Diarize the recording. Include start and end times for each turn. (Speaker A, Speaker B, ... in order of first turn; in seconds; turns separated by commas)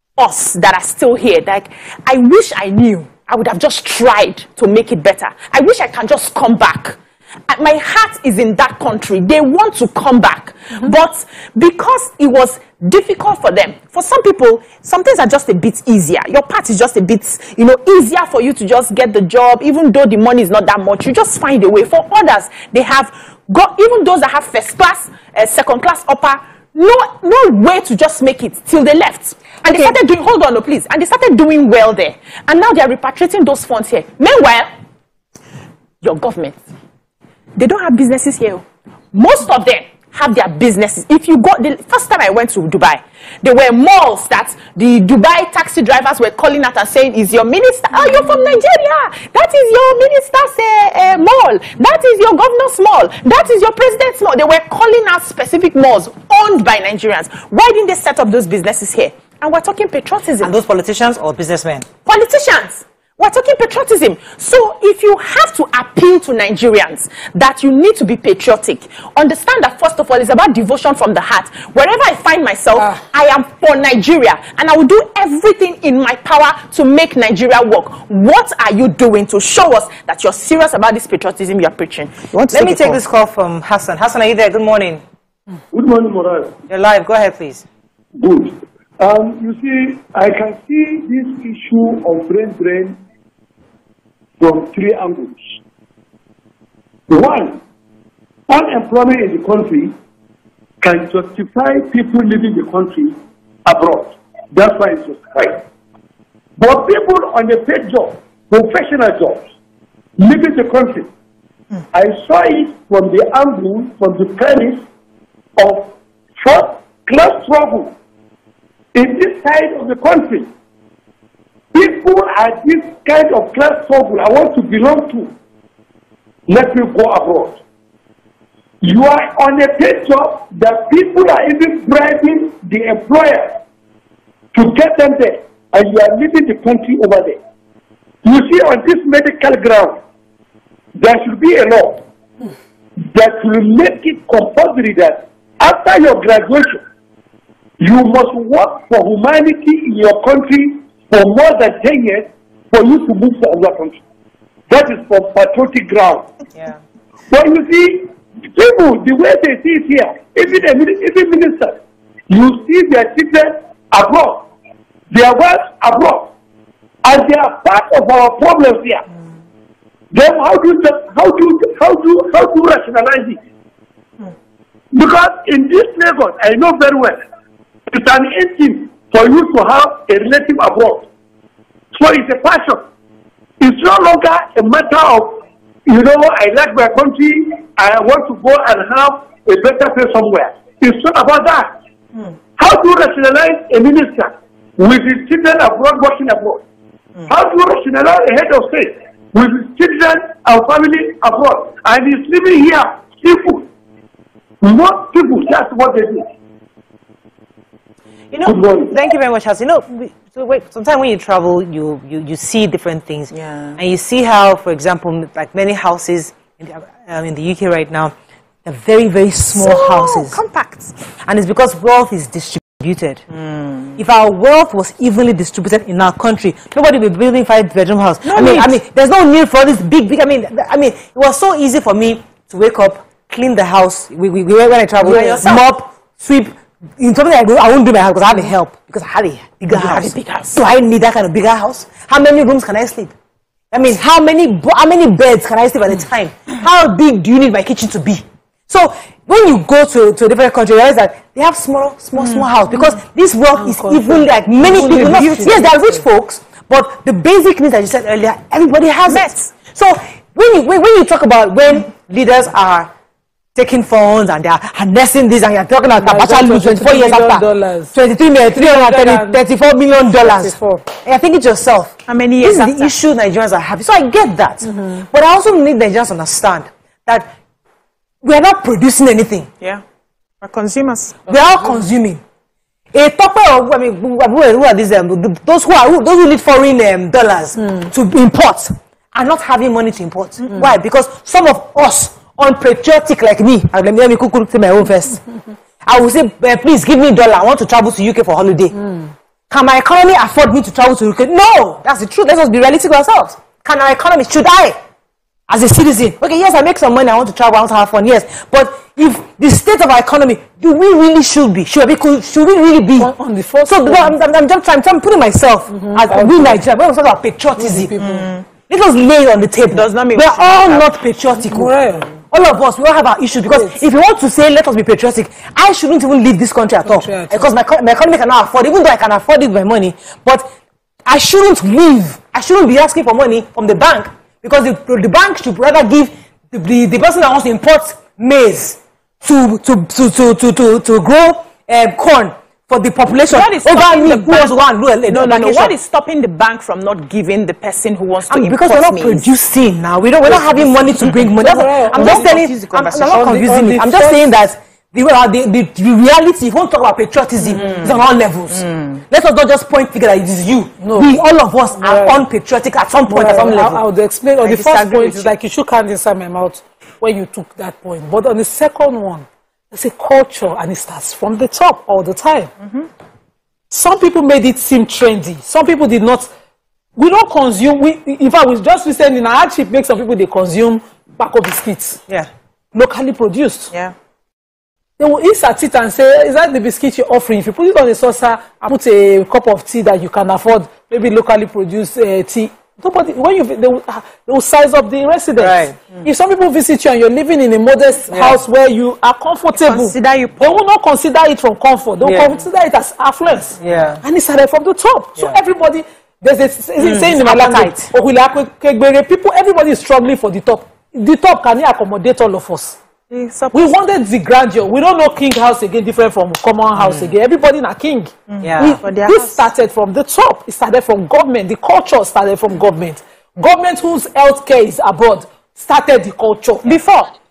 Speaker A: 0.2-7.0, Speaker A: 7.5-34.7, Speaker A: 36.0-36.6, Speaker A: 37.6-60.5, Speaker B: 60.4-61.9, Speaker A: 62.0-83.0, Speaker C: 72.8-73.0, Speaker B: 82.5-85.0, Speaker D: 85.7-86.5, Speaker B: 86.7-87.7, Speaker D: 88.2-93.0, Speaker D: 94.4-95.5, Speaker D: 97.1-97.6, Speaker D: 98.5-99.9, Speaker D: 100.8-105.6, Speaker D: 106.6-109.5, Speaker D: 110.2-111.1, Speaker D: 111.9-114.8, Speaker D: 115.6-117.9, Speaker D: 119.0-120.5, Speaker D: 121.7-125.3, Speaker D: 126.5-127.6, Speaker D: 128.8-133.6, Speaker D: 134.5-137.4, Speaker D: 138.2-140.0, Speaker D: 141.0-142.0, Speaker D: 143.1-146.8, Speaker D: 147.8-154.0, Speaker D: 154.7-156.3, Speaker D: 157.3-161.8, Speaker D: 162.3-164.5, Speaker D: 165.1-166.3, Speaker D: 167.0-169.0, Speaker D: 170.1-173.4, Speaker D: 174.9-177.2, Speaker D: 177.9-181.1, Speaker D: 181.9-182.8, Speaker D: 183.6-191.8, Speaker D: 192.6-196.6, Speaker D: 197.3-203.7, Speaker D: 204.6-206.3, Speaker B: 208.3-218.1, Speaker D: 208.4-209.0, Speaker B: 218.7-220.4, Speaker A: 219.5-220.9, Speaker B: 221.2-223.2, Speaker B: 224.0-243.1, Speaker A: 228.2-228.8, Speaker A: 235.0-235.7, Speaker A: 239.7-240.7, Speaker B: 243.7-262.9, Speaker C: 253.6-256.0, Speaker A: 259.1-259.6, Speaker B: 263.6-277.3, Speaker C: 266.0-268.0, Speaker C: 268.5-269.4, Speaker C: 270.2-270.6, Speaker A: 272.1-273.0, Speaker C: 274.6-275.1, Speaker B: 278.2-279.5, Speaker A: 280.4-281.2, Speaker B: 281.3-282.2, Speaker B: 282.9-295.2, Speaker C: 287.6-287.9, Speaker B: 295.8-298.7, Speaker C: 298.7-299.1, Speaker B: 299.5-304.8, Speaker B: 305.5-313.1, Speaker C: 313.0-314.2, Speaker B: 313.6-318.0, Speaker C: 315.7-316.6, Speaker C: 317.6-318.3, Speaker A: 318.0-318.4, Speaker B: 318.7-321.8, Speaker A: 319.7-320.9, Speaker C: 321.3-322.1, Speaker B: 322.3-330.5, Speaker C: 323.4-323.9, Speaker C: 326.8-327.5, Speaker B: 331.1-345.8, Speaker A: 343.2-349.3, Speaker B: 348.2-363.8, Speaker C: 350.3-352.4, Speaker A: 351.0-351.3, Speaker A: 351.9-353.3, Speaker C: 353.1-354.3, Speaker A: 357.4-358.0, Speaker A: 358.5-359.0, Speaker C: 360.8-361.2, Speaker C: 361.7-362.3, Speaker C: 363.1-372.5, Speaker B: 364.4-365.4, Speaker A: 372.6-372.9, Speaker C: 373.7-376.3, Speaker C: 377.0-382.0, Speaker C: 382.7-383.7, Speaker C: 385.0-412.8, Speaker B: 395.4-395.8, Speaker B: 398.1-398.4, Speaker A: 399.7-400.4, Speaker B: 402.0-402.4, Speaker B: 403.5-404.0, Speaker B: 406.8-407.9, Speaker A: 413.1-413.7, Speaker C: 413.5-426.7, Speaker B: 416.8-417.1, Speaker A: 418.3-419.4, Speaker B: 418.4-418.8, Speaker B: 426.6-427.1